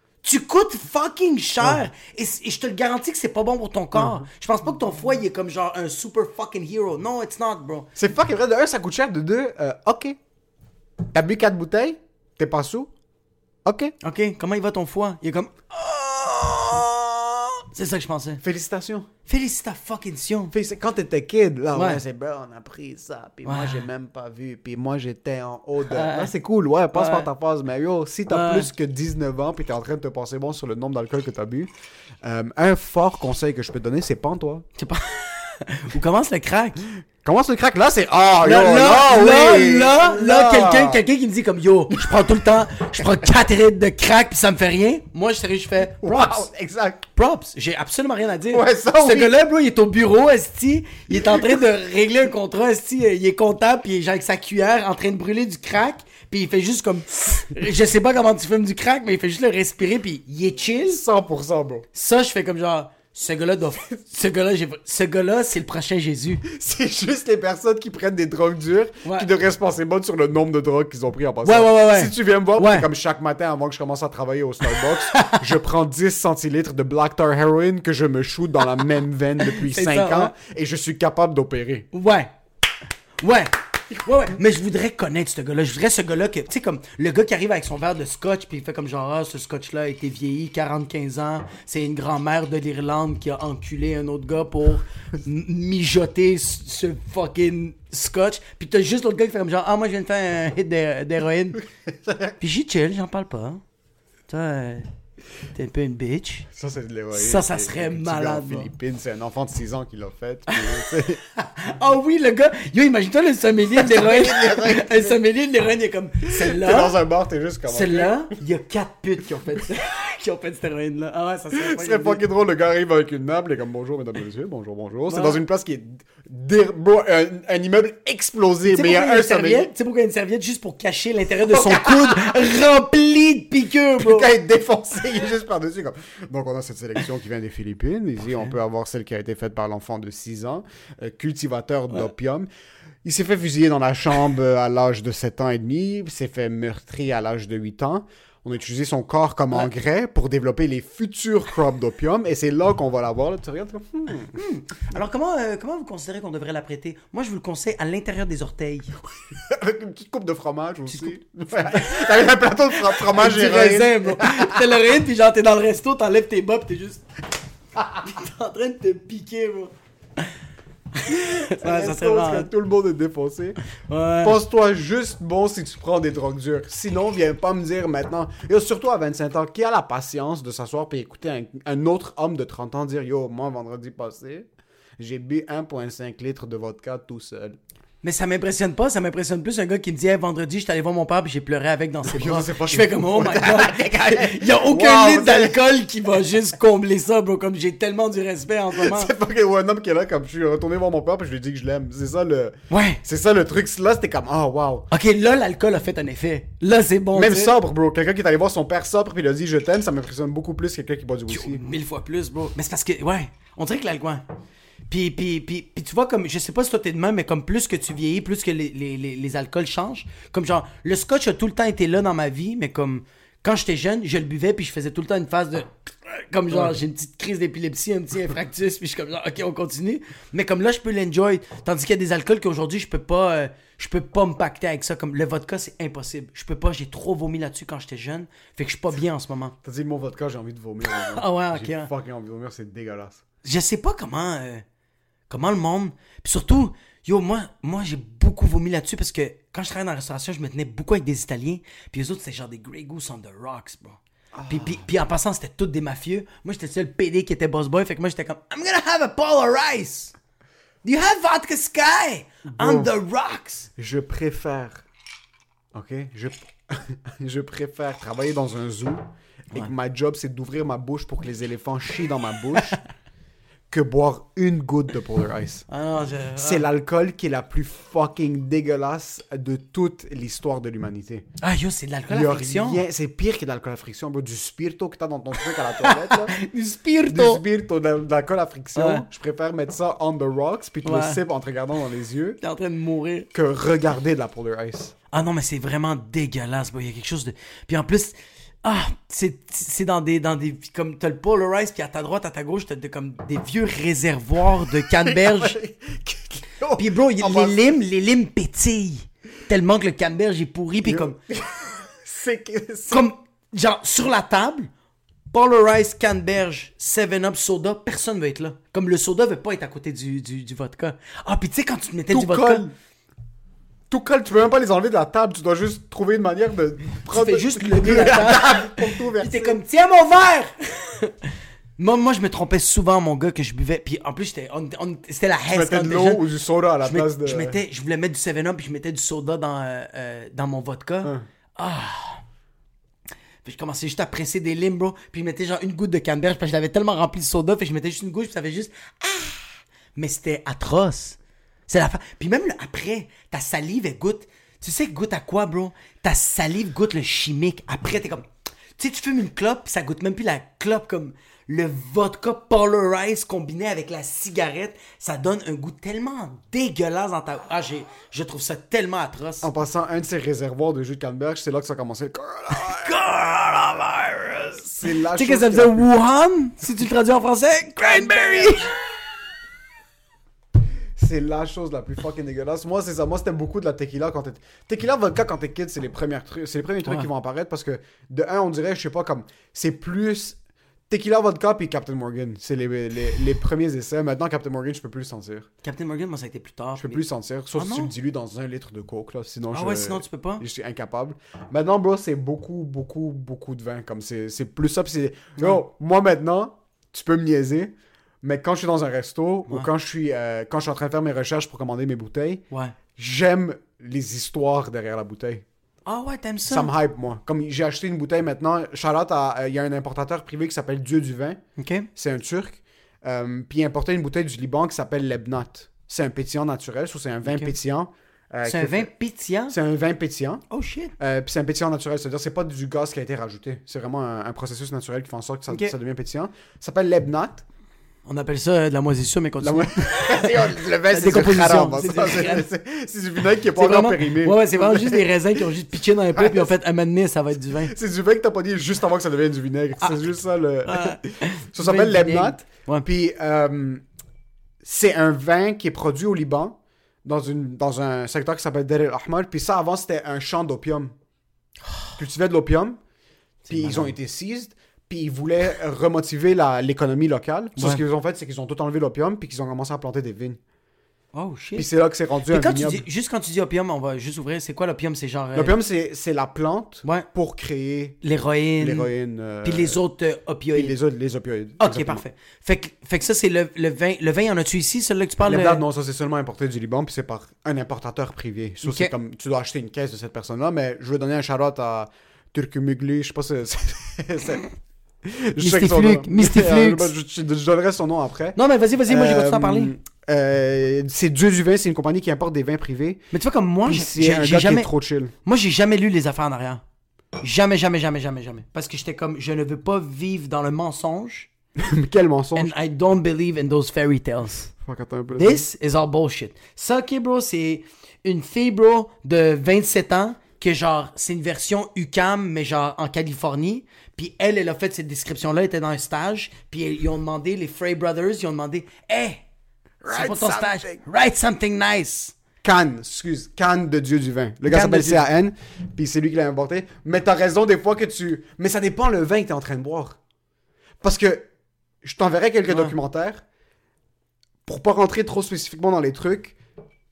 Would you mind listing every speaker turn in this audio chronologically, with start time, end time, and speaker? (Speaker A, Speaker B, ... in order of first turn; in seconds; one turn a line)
Speaker A: 0.2-7.9
Speaker B: 3.9-4.2
Speaker B: 8.0-10.2
Speaker B: 11.1-12.9
Speaker B: 13.6-13.9
Speaker A: 14.0-18.4
Speaker B: 18.4-19.1
Speaker A: 19.2-20.5
Speaker B: 20.5-31.7
Speaker A: 21.7-22.0
Speaker A: 23.4-23.8
Speaker A: 25.9-26.3
Speaker A: 26.9-27.3
Speaker A: 28.3-28.7
Speaker B: 32.2-34.6
Speaker A: 34.8-36.8
Speaker B: 37.2-41.0
Speaker A: 38.4-46.5
Speaker B: 41.9-43.3
Speaker B: 46.0-47.0
Speaker A: 47.1-61.0
Speaker B: 48.5-49.3
Speaker B: 51.1-51.6
Speaker B: 60.9-61.9
Speaker A: 61.9-66.4
Speaker B: 66.4-81.9
Speaker A: 69.0-69.3
Speaker A: 71.4-72.9
Speaker A: 75.1-75.4
Speaker A: 79.4-80.3
Speaker A: 81.9-82.3
Speaker A: 83.2-101.6
Speaker B: 101.8-102.3
Speaker A: 102.4-103.6
Speaker A: 104.3-104.9
Speaker A: 105.5-106.5
Speaker B: 106.5-111.2
Speaker A: 107.1-108.7
Speaker A: 111.3-117.0
Speaker B: 113.7-115.2
Speaker B: 116.3-118.3
Speaker A: 117.7-122.2
Speaker B: 121.5-129.7
Speaker A: 125.1-125.4
Speaker A: 128.7-134.3
Speaker B: 131.4-132.4
Speaker B: 134.0-142.5
Speaker B: 143.0-154.4
Speaker A: 154.3-158.9
Speaker B: 159.3-164.8
Speaker A: 161.7-162.0
Speaker A: 162.8-167.0
Speaker A: 168.0-170.3
Speaker A: 170.9-172.5
Speaker B: 171.1-173.6
Speaker A: 173.8-174.4
Speaker B: 174.2-187.6
Speaker A: 188.0-199.1
Speaker B: 192.1-195.6
Speaker B: 198.7-204.9
Speaker A: 202.7-203.0
Speaker A: 204.9-207.6
Speaker B: 207.1-211.6
Speaker A: 211.3-214.2
Speaker A: 214.9-239.5
Speaker B: 239.6-243.2
Speaker A: 240.9-241.9
Speaker A: 243.4-244.6
Speaker A: 245.3-260.1
Speaker B: 254.3-254.8
Speaker A: 260.8-263.7
Speaker B: 262.5-262.9
Speaker B: 263.8-264.8
Speaker B: 265.7-272.8
Speaker B: 273.7-275.6
Speaker A: 275.7-276.7
Speaker B: 276.4-281.2
Speaker A: 281.4-282.8
Speaker B: 282.1-286.4
Speaker A: 285.5-287.4
Speaker B: 287.1-292.4
Speaker A: 288.8-289.0
Speaker A: 290.8-291.2
Speaker A: 292.4-293.3
Speaker B: 293.3-294.9
Speaker A: 295.1-305.6
Speaker B: 304.8-307.7
Speaker A: 306.8-311.2
Speaker B: 310.8-313.1
Speaker A: 312.9-314.7
Speaker A: 315.3-322.7
Speaker B: 322.1-322.7
Speaker B: 323.9-329.6
Speaker A: 327.1-331.1
Speaker A: 331.8-336.2
Speaker B: 335.5-337.6
Speaker A: 336.8-342.2
Speaker A: 343.4-369.5
Speaker B: 369.4-372.9
Speaker A: 372.5-378.7
Speaker B: 374.6-375.9
Speaker B: 377.8-378.8
Speaker B: 380.9-390.4
Speaker B: 390.9-395.5
Speaker A: 395.6-397.9
Speaker B: 396.8-412.4
Speaker A: 399.5-400.4
Speaker A: 405.4-405.6
Speaker A: 412.5-412.8
Speaker B: 412.9-415.4
Speaker A: 415.9-416.7
Speaker B: 416.4-421.4
Speaker A: 421.6-421.9
Speaker B: 421.9-428.9
Speaker A: 427.2-427.5
Speaker A: 428.4-429.6
Speaker B: 429.5-430.4
Speaker A: 430.5-430.9
Speaker B: 431.0-437.4
Speaker A: 435.5-435.7
Speaker A: 438.1-442.5
Speaker B: 439.4-446.5
Speaker A: 443.6-447.7
Speaker B: 447.6-453.8
Speaker A: 450.6-452.9
Speaker B: 454.6-460.9
Speaker A: 461.7-462.0
Speaker B: 462.0-462.8
Speaker A: 463.4-463.9
Speaker B: 463.5-470.4
Speaker A: 467.6-467.8
Speaker A: 471.1-471.7
Speaker B: 471.6-472.8
Speaker A: 472.3-475.6
Speaker B: 475.3-478.0
Speaker A: 478.0-478.9
Speaker B: 478.6-479.8
Speaker A: 479.4-480.8
Speaker B: 480.5-482.0
Speaker A: 481.6-485.6
Speaker B: 485.2-494.4
Speaker A: 488.6-488.9
Speaker B: 495.0-503.0
Speaker A: 495.4-496.9
Speaker A: 498.4-499.7
Speaker A: 503.1-504.7
Speaker B: 503.6-505.1
Speaker A: 505.2-506.6
Speaker A: 507.2-511.3
Speaker B: 511.6-512.5
Speaker A: 512.3-514.5
Speaker B: 514.6-515.5
Speaker A: 515.1-529.2
Speaker B: 529.8-530.8
Speaker A: 529.9-532.1
Speaker B: 532.4-540.0
Speaker A: 534.5-535.0
Speaker B: 540.8-541.2
Speaker B: 541.8-543.2
Speaker A: 542.5-542.7
Speaker B: 544.4-546.4